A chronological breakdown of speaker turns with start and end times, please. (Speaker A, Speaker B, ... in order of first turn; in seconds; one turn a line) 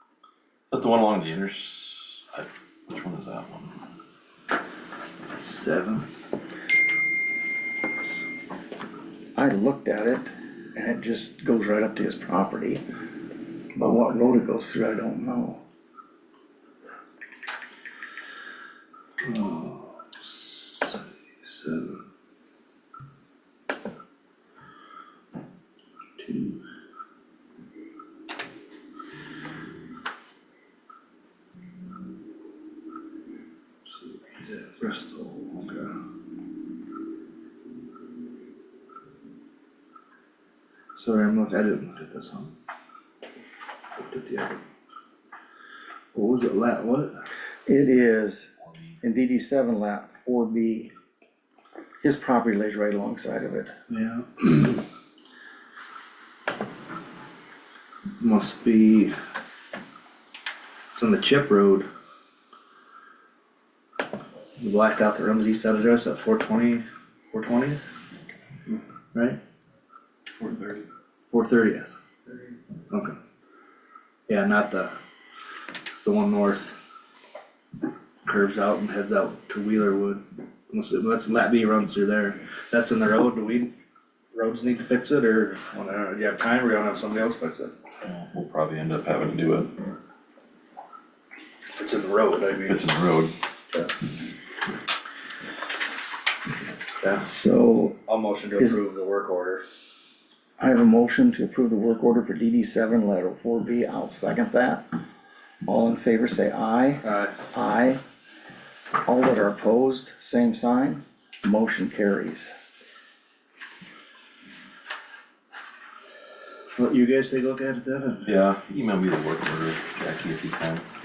Speaker A: 0.7-3.8
Speaker B: 5.4-6.1
Speaker C: 9.3-12.8
Speaker C: 13.8-15.6
Speaker B: 19.2-22.0
Speaker B: 26.2-26.6
Speaker B: 34.0-35.9
Speaker B: 41.0-42.5
Speaker B: 44.0-44.6
Speaker B: 46.1-47.2
Speaker C: 47.7-48.5
Speaker C: 49.0-50.9
Speaker C: 52.0-53.7
Speaker B: 53.9-54.9
Speaker B: 58.2-59.1
Speaker B: 61.0-61.9
Speaker B: 64.6-67.8
Speaker B: 69.1-69.4
Speaker B: 71.3-71.9
Speaker B: 72.9-73.2
Speaker B: 74.3-75.0
Speaker B: 75.9-76.8
Speaker B: 78.2-83.7
Speaker B: 84.3-87.7
Speaker A: 88.0-89.7
Speaker B: 91.8-92.8
Speaker A: 92.7-93.3
Speaker B: 97.0-97.3
Speaker C: 97.3-98.0
Speaker B: 98.1-99.6
Speaker C: 100.6-104.8
Speaker C: 105.7-108.0
Speaker B: 107.0-107.3
Speaker C: 109.1-112.5
Speaker B: 116.8-118.3
Speaker A: 118.2-120.8